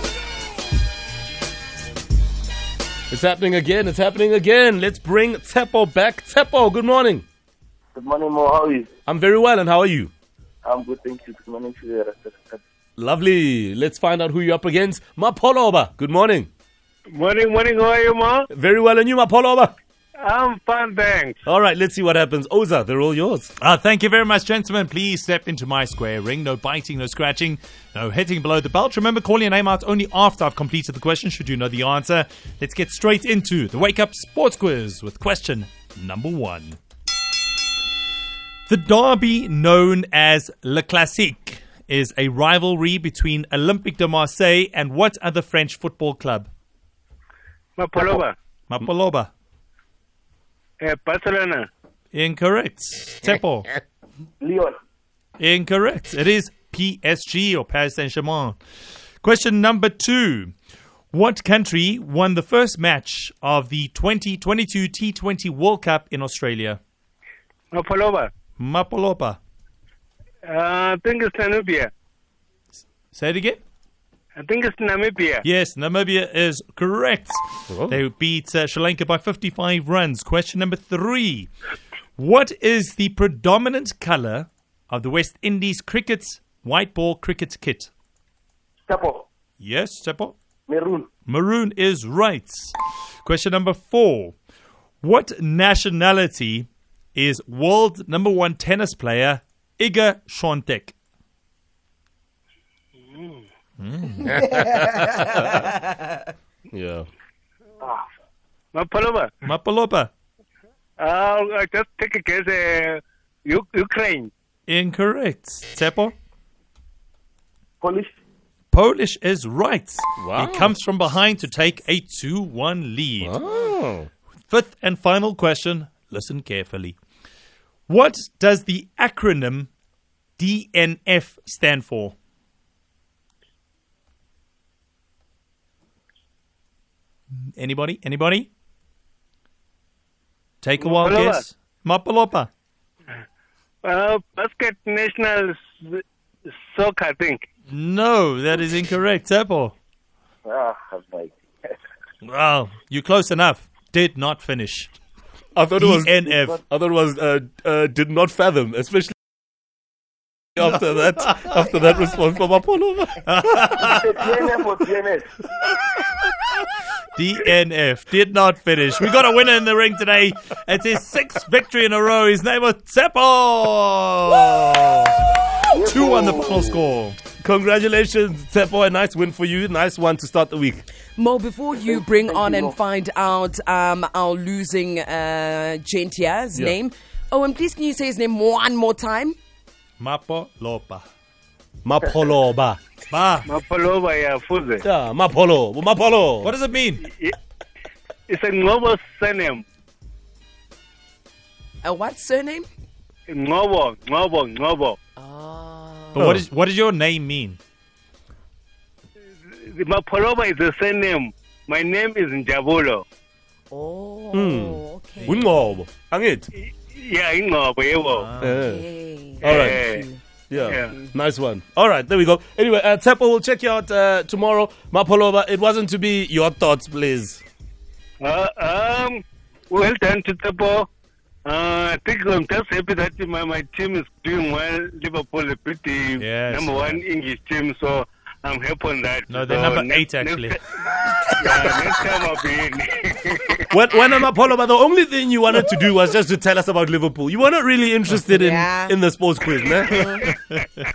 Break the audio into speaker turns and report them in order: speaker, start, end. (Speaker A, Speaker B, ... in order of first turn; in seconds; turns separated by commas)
Speaker A: 3.1-7.2, Speaker B: 7.9-8.9, Speaker A: 9.1-10.1, Speaker B: 10.7-12.6, Speaker A: 13.0-16.5, Speaker C: 17.1-18.5, Speaker A: 18.5-19.8, Speaker C: 20.2-21.4, Speaker A: 21.5-23.5, Speaker D: 23.6-36.8, Speaker D: 38.7-46.5, Speaker C: 47.8-48.4, Speaker D: 48.7-49.3, Speaker C: 50.8-51.7, Speaker D: 52.1-53.8, Speaker B: 54.4-54.8, Speaker D: 55.4-58.6, Speaker D: 59.2-60.5, Speaker D: 61.1-66.8, Speaker C: 67.7-68.3, Speaker D: 68.6-69.4, Speaker C: 70.5-71.9, Speaker D: 73.1-73.6, Speaker C: 74.4-75.4, Speaker D: 75.4-81.5, Speaker A: 77.7-78.0, Speaker D: 82.2-87.9, Speaker B: 88.9-89.3, Speaker D: 89.6-90.4, Speaker B: 90.7-91.1, Speaker D: 91.3-92.7, Speaker D: 93.2-94.4, Speaker D: 95.0-101.0, Speaker C: 103.1-103.5, Speaker D: 103.8-104.5, Speaker A: 104.2-105.9, Speaker A: 106.7-107.1, Speaker C: 108.7-109.3, Speaker D: 109.4-110.1, Speaker C: 111.0-114.3, Speaker D: 114.7-116.1, Speaker B: 117.8-118.1, Speaker D: 118.7-123.4, Speaker A: 120.2-120.7, Speaker A: 123.2-124.1, Speaker D: 124.5-127.0, Speaker D: 127.9-129.7, Speaker D: 130.4-132.2, Speaker D: 137.6-138.5, Speaker D: 140.6-142.5, Speaker C: 140.8-141.4, Speaker C: 143.8-147.4, Speaker D: 147.7-149.8, Speaker B: 150.5-151.3, Speaker D: 152.2-155.0, Speaker A: 155.6-159.2, Speaker D: 155.8-156.6, Speaker A: 160.6-163.7, Speaker D: 163.3-164.1, Speaker B: 163.8-165.3, Speaker D: 167.2-175.3, Speaker B: 175.7-176.8, Speaker D: 175.8-177.2, Speaker A: 177.4-180.8, Speaker E: 181.2-189.4, Speaker B: 181.8-182.8, Speaker D: 190.0-191.0, Speaker A: 191.8-192.8, Speaker D: 193.1-193.5, Speaker C: 193.5-194.8, Speaker A: 194.8-196.5, Speaker D: 196.4-197.1, Speaker C: 197.0-197.4, Speaker C: 198.3-199.6, Speaker E: 201.8-202.7, Speaker C: 203.3-205.0, Speaker E: 205.2-206.4, Speaker D: 206.1-207.6, Speaker C: 209.5-213.1, Speaker E: 213.7-215.7, Speaker A: 214.3-216.5, Speaker C: 216.6-218.3, Speaker D: 218.1-218.6, Speaker A: 218.4-218.9, Speaker E: 218.6-220.2, Speaker A: 219.4-219.8, Speaker C: 219.4-220.1, Speaker A: 220.5-227.4, Speaker C: 220.6-220.9, Speaker C: 228.2-230.9, Speaker C: 231.5-240.6, Speaker D: 236.2-237.0, Speaker D: 239.3-240.6, Speaker C: 241.3-243.7, Speaker A: 243.7-250.2, Speaker E: 248.3-248.9, Speaker E: 249.9-250.3